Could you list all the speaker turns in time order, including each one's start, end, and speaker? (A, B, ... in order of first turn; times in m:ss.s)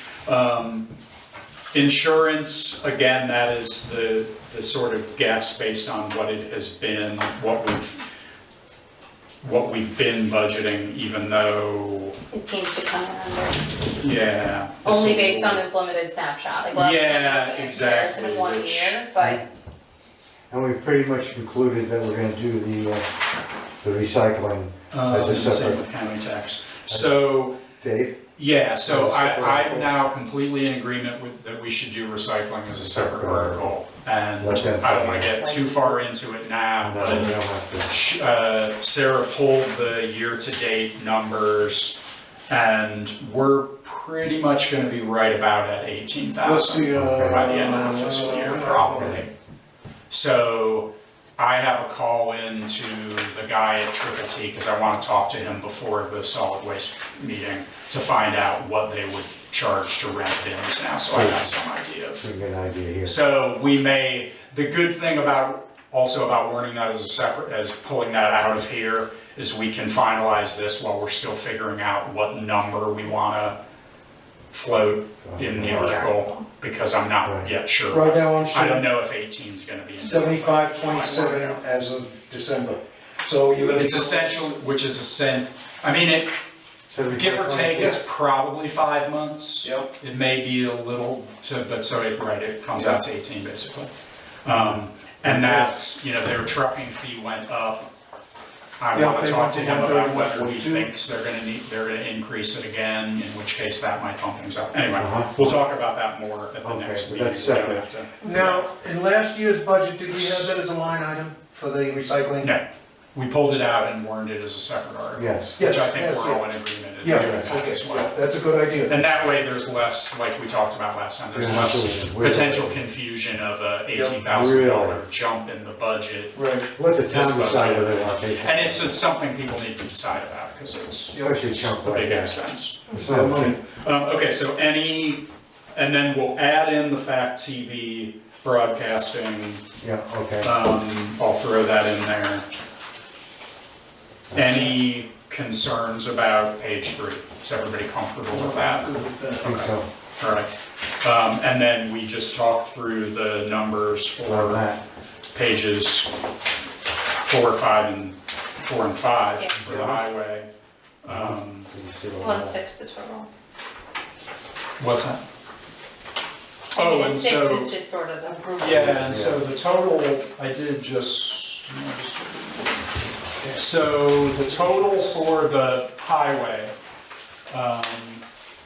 0:00.2-0:00.9 A
0:01.7-0:08.0 A
0:09.4-0:12.1 A
0:12.3-0:13.6 B
0:14.0-0:15.6 A
0:14.8-0:19.4 B
0:16.7-0:19.0 A
0:19.2-0:19.4 C
0:20.5-0:23.1 C
0:23.8-0:25.8 C
0:24.9-0:27.6 A
0:26.9-0:28.2 C
0:28.4-0:42.0 A
0:28.8-0:29.9 C
0:32.7-0:33.7 C
0:34.4-0:35.4 C
0:35.4-0:36.0 B
0:36.8-0:37.9 C
0:42.5-0:49.3 A
0:46.4-0:49.2 D
0:46.9-0:47.5 C
0:48.9-0:49.2 C
0:50.1-1:02.3 A
1:01.1-1:01.5 C
1:02.2-1:03.2 C
1:03.0-1:13.6 A
1:14.5-1:21.6 A
1:15.2-1:15.9 C
1:15.6-1:16.4 B
1:17.2-1:17.5 C
1:17.9-1:18.8 D
1:20.0-1:24.4 D
1:23.7-1:26.3 A
1:26.9-1:28.0 C
1:27.1-1:33.9 A
1:29.6-1:29.9 D
1:32.7-1:33.0 D
1:34.4-1:37.9 A
1:34.5-1:35.5 C
1:38.8-1:48.6 A
1:38.9-1:40.9 D
1:44.9-1:45.6 C
1:46.6-1:47.8 C
1:48.2-1:52.5 D
1:50.1-1:50.5 A
1:52.4-1:58.1 A
1:55.1-1:55.6 C
1:55.6-1:56.4 D
1:57.0-1:59.0 D
1:57.1-1:57.5 C
1:58.9-2:06.4 A
2:01.3-2:02.8 C
2:03.9-2:04.2 D
2:04.3-2:05.0 C
2:06.3-2:06.7 D
2:06.7-2:09.0 C
2:07.1-2:15.2 A
2:11.1-2:11.4 D
2:11.2-2:12.4 C
2:12.9-2:13.6 C
2:12.9-2:13.6 D
2:15.7-2:19.6 A
2:19.8-2:20.5 C
2:20.4-2:22.4 A
2:24.3-2:24.8 C
2:24.3-2:30.5 A
2:28.3-2:29.4 D
2:29.4-2:29.9 C
2:31.0-2:34.7 A
2:34.2-2:34.8 C
2:35.3-2:36.1 A
2:37.2-2:40.4 A
2:39.4-2:39.7 B
2:39.6-2:40.0 C
2:41.0-2:41.7 A
2:41.1-2:42.6 C
2:42.2-2:43.3 B
2:44.8-2:45.2 A
2:46.7-2:47.7 A
2:46.7-2:49.0 B
2:48.6-2:52.8 A
2:48.7-2:49.4 C
2:53.5-2:56.7 A
2:54.2-2:55.2 D
2:57.5-2:58.2 A